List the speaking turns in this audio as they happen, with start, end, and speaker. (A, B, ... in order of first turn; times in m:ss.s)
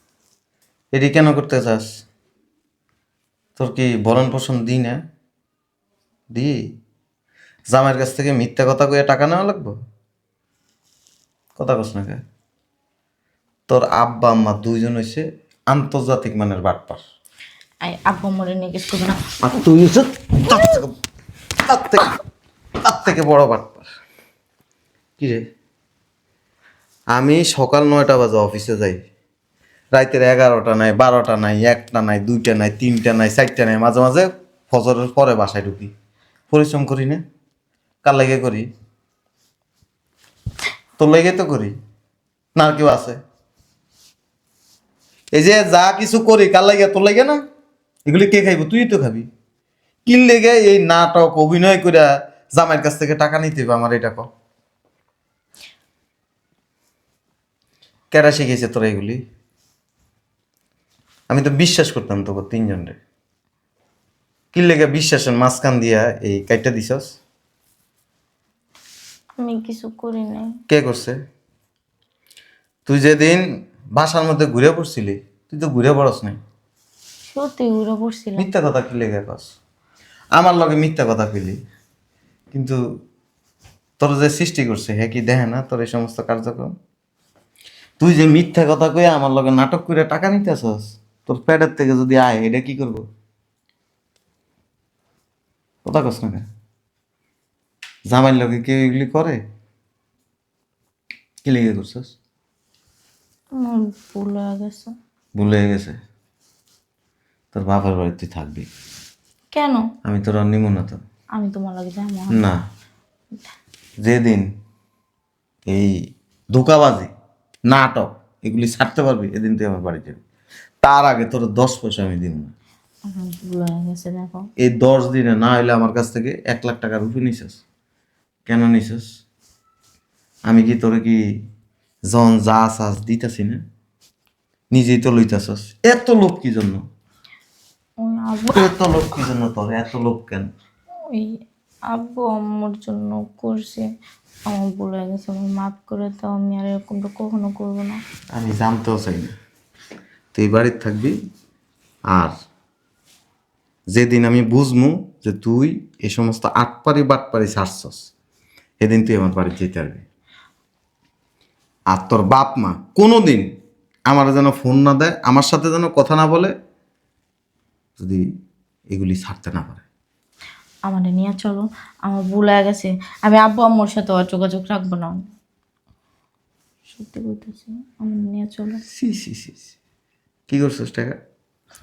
0:00.9-0:02.0 A
0:03.6-0:05.0 A
0:07.7-0:09.8 A
0:11.6-0:12.2 A
0:13.7-0:17.0 A
0:17.8-0:19.2 B
0:19.4-0:20.9 A
0:21.6-0:22.1 A
0:22.8-0:23.9 A
0:25.2-0:25.4 A
0:27.1-0:29.0 A
0:29.9-0:35.9 A
0:36.5-0:37.2 A
0:38.0-0:38.7 A
0:41.0-0:41.8 A
0:42.6-0:43.2 A
0:45.3-0:47.4 A
0:48.0-0:49.3 A
0:50.0-0:54.3 A
0:58.1-0:59.2 A
1:01.3-1:03.0 A
1:04.5-1:07.2 A
1:09.4-1:10.5 B
1:10.7-1:11.2 A
1:12.9-1:16.4 A
1:17.3-1:18.5 B
1:18.4-1:19.5 A
1:20.3-1:21.6 A
1:22.5-1:22.8 A
1:24.0-1:26.8 A
1:28.0-1:33.0 A
1:35.8-1:36.5 A
1:38.1-1:39.4 A
1:41.4-1:42.1 A
1:43.5-1:44.9 B
1:45.4-1:46.0 A
1:47.5-1:48.7 A
1:49.5-1:49.9 B
1:50.0-1:51.0 A
1:51.4-1:52.5 B
1:52.3-1:52.6 A
1:54.0-1:54.5 A
1:55.6-1:57.1 A
1:57.6-2:00.2 A
2:00.8-2:02.5 A
2:03.0-2:04.5 B
2:04.6-2:07.6 A
2:08.5-2:09.2 A
2:10.4-2:11.2 A
2:12.0-2:13.6 A
2:14.7-2:16.8 A
2:18.0-2:18.7 B
2:18.5-2:20.5 A
2:21.9-2:23.9 B
2:24.5-2:28.0 B
2:28.3-2:29.3 A
2:30.3-2:31.2 A
2:33.9-2:38.1 A
2:38.8-2:40.0 A
2:41.9-2:43.5 A
2:44.1-2:46.5 A
2:48.0-2:48.2 A
2:48.9-2:49.8 A
2:50.9-2:55.2 B
2:56.9-2:58.8 B
2:58.9-2:59.7 A
3:00.5-3:01.2 A